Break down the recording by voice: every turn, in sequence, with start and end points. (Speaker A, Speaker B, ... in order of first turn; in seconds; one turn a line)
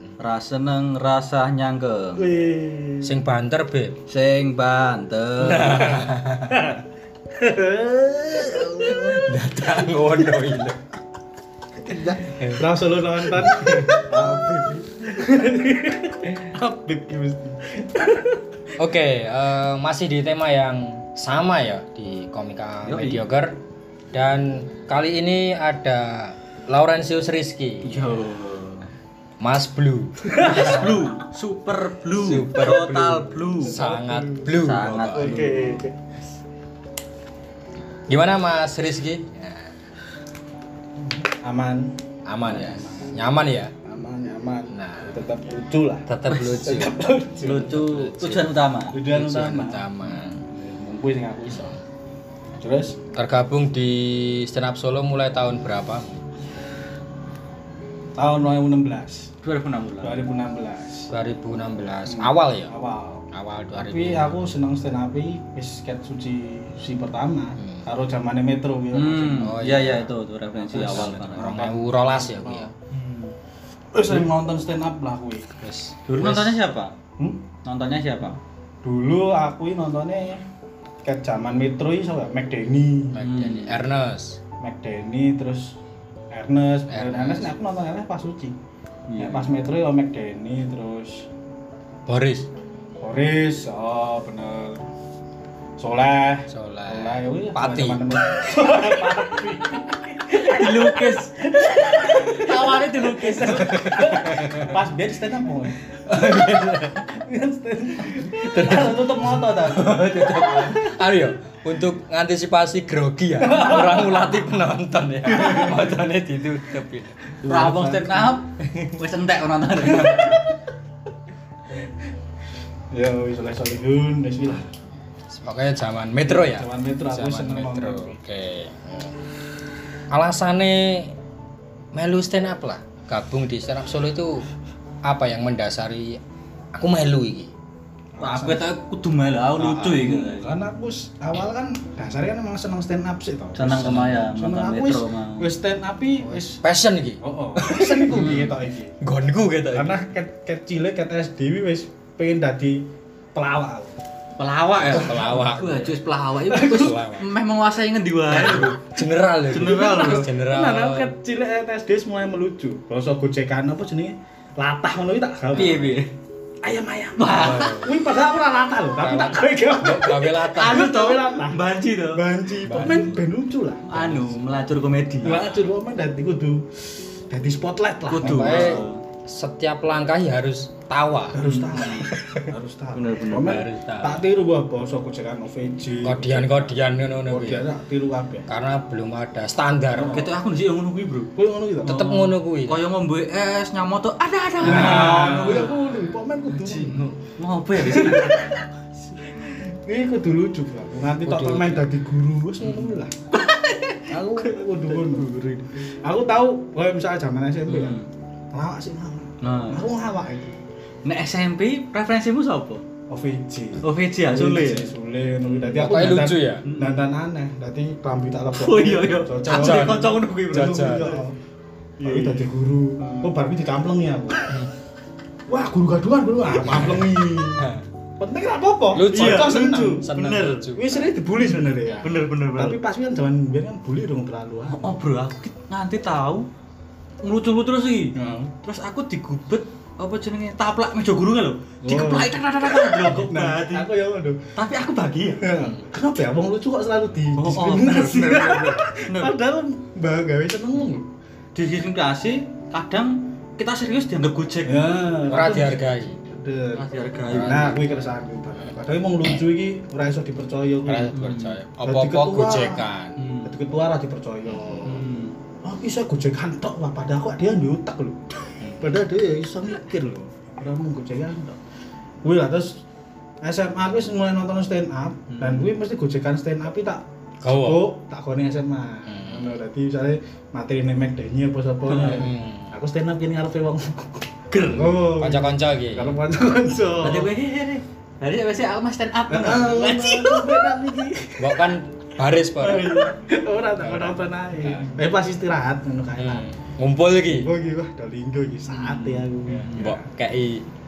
Speaker A: 0.2-2.2
Speaker B: 2.2-3.2
Speaker C: 3.0-4.0
Speaker A: 4.1-6.0
Speaker C: 5.4-6.7
Speaker B: 7.4-9.2
Speaker A: 8.4-9.3
Speaker C: 9.2-10.8
Speaker B: 11.8-18.4
Speaker A: 12.2-12.7
Speaker A: 13.4-14.1
Speaker C: 18.8-23.6
Speaker A: 22.9-23.2
Speaker C: 24.1-28.2
Speaker A: 27.8-28.9
Speaker C: 29.4-31.0
Speaker B: 30.3-30.8
Speaker A: 30.4-33.8
Speaker C: 32.2-35.4
Speaker B: 33.6-35.9
Speaker A: 34.5-35.9
Speaker C: 38.1-39.7
Speaker B: 41.2-47.8
Speaker C: 42.3-43.7
Speaker C: 44.7-45.2
Speaker C: 46.1-46.9
Speaker A: 46.3-46.6
Speaker A: 47.4-49.0
Speaker C: 47.6-50.4
Speaker B: 48.9-49.9
Speaker B: 50.4-51.8
Speaker C: 51.5-51.8
Speaker B: 52.5-53.0
Speaker C: 53.1-56.1
Speaker B: 58.2-59.3
Speaker A: 59.4-60.2
Speaker B: 60.0-61.1
Speaker C: 61.1-62.7
Speaker B: 62.1-69.6
Speaker C: 63.3-64.5
Speaker A: 68.9-71.6
Speaker C: 69.3-70.1
Speaker C: 70.7-72.7
Speaker B: 70.7-72.7
Speaker A: 72.9-73.3
Speaker B: 73.9-75.6
Speaker C: 75.6-76.6
Speaker A: 76.1-76.9
Speaker B: 77.2-77.4
Speaker A: 77.6-78.4
Speaker B: 78.8-80.4
Speaker B: 81.0-83.3
Speaker C: 83.1-84.4
Speaker A: 83.2-83.8
Speaker B: 84.6-85.8
Speaker B: 86.3-88.6
Speaker C: 86.9-87.5
Speaker A: 89.1-89.5
Speaker B: 89.2-91.3
Speaker C: 92.1-92.5
Speaker B: 93.0-94.9
Speaker B: 95.8-110.3
Speaker C: 96.5-98.0
Speaker A: 100.4-104.7
Speaker A: 106.1-107.0
Speaker C: 108.5-108.9
Speaker A: 109.4-111.0
Speaker C: 110.7-117.3
Speaker B: 113.4-114.4
Speaker B: 115.3-115.8
Speaker A: 115.4-115.7
Speaker B: 117.4-118.3
Speaker A: 117.4-120.5
Speaker B: 120.0-120.4
Speaker B: 122.9-124.7
Speaker C: 125.3-129.1
Speaker B: 126.3-128.2
Speaker C: 130.1-131.1
Speaker C: 131.9-134.4
Speaker C: 135.0-136.2
Speaker C: 136.8-137.5
Speaker B: 138.2-138.7
Speaker A: 138.2-140.5
Speaker B: 139.6-146.6
Speaker A: 143.6-145.5
Speaker C: 143.7-144.2
Speaker C: 146.2-147.2
Speaker B: 147.2-149.0
Speaker C: 147.7-148.5
Speaker A: 148.0-148.6
Speaker C: 149.0-149.9
Speaker B: 149.7-154.0
Speaker A: 154.4-158.9
Speaker C: 154.8-156.0
Speaker B: 156.5-157.0
Speaker C: 156.6-157.3
Speaker C: 158.3-161.1
Speaker A: 159.4-160.3
Speaker B: 159.5-166.0
Speaker A: 165.5-166.1
Speaker B: 166.6-174.2
Speaker A: 167.2-167.8
Speaker C: 167.3-168.0
Speaker C: 169.0-170.9
Speaker A: 170.5-172.3
Speaker C: 172.6-173.2
Speaker A: 173.9-175.5
Speaker B: 175.2-176.7
Speaker B: 177.3-178.9
Speaker A: 178.1-179.0
Speaker C: 178.2-181.4
Speaker B: 181.3-188.5
Speaker A: 181.4-182.2
Speaker A: 182.9-183.6
Speaker C: 183.3-184.2
Speaker C: 186.0-187.7
Speaker C: 188.5-190.3
Speaker B: 189.9-190.4
Speaker A: 190.1-191.3
Speaker B: 191.4-192.1
Speaker A: 191.8-196.0
Speaker C: 191.8-192.8
Speaker B: 194.6-197.1
Speaker A: 196.5-198.6
Speaker B: 197.8-198.6
Speaker B: 199.2-203.2
Speaker C: 201.2-201.9
Speaker A: 203.3-205.7
Speaker B: 204.1-208.0
Speaker A: 207.7-208.1
Speaker B: 208.5-210.6
Speaker A: 209.4-209.8
Speaker A: 211.1-212.8
Speaker B: 213.1-221.4
Speaker A: 213.8-214.9
Speaker C: 215.7-216.7
Speaker A: 216.6-217.0
Speaker A: 218.6-221.2
Speaker C: 219.5-221.2
Speaker B: 222.0-224.6
Speaker A: 222.0-222.5
Speaker A: 223.0-223.3
Speaker B: 225.5-227.7
Speaker C: 226.6-227.1
Speaker C: 227.6-227.8
Speaker B: 228.2-230.1
Speaker C: 228.9-231.1
Speaker A: 229.1-230.7
Speaker B: 230.7-235.0
Speaker C: 231.8-232.1
Speaker A: 232.0-232.8
Speaker A: 234.7-236.5
Speaker A: 237.2-243.9
Speaker B: 238.2-238.5
Speaker B: 241.8-244.4
Speaker A: 244.6-245.5
Speaker B: 245.4-251.1
Speaker A: 247.4-249.3
Speaker A: 251.6-254.9
Speaker B: 254.7-261.3
Speaker C: 255.3-256.2
Speaker A: 256.8-257.8
Speaker C: 257.2-257.9
Speaker C: 260.9-263.2
Speaker A: 261.1-261.6
Speaker B: 261.8-262.9
Speaker A: 263.2-263.5
Speaker B: 263.4-265.1
Speaker C: 264.5-264.9
Speaker A: 264.9-265.3
Speaker B: 265.6-271.6
Speaker C: 268.6-268.9
Speaker B: 272.2-272.8
Speaker B: 273.4-287.3
Speaker A: 275.3-275.7
Speaker C: 277.4-277.9
Speaker C: 279.1-279.6
Speaker A: 281.9-282.2
Speaker C: 282.1-282.7
Speaker A: 284.5-285.0
Speaker C: 285.1-286.2
Speaker A: 287.0-290.6
Speaker B: 289.3-291.8
Speaker C: 291.4-293.0
Speaker B: 292.6-296.5
Speaker C: 293.8-294.9
Speaker C: 296.2-297.5
Speaker B: 297.2-300.0
Speaker A: 298.7-300.0
Speaker C: 299.7-300.6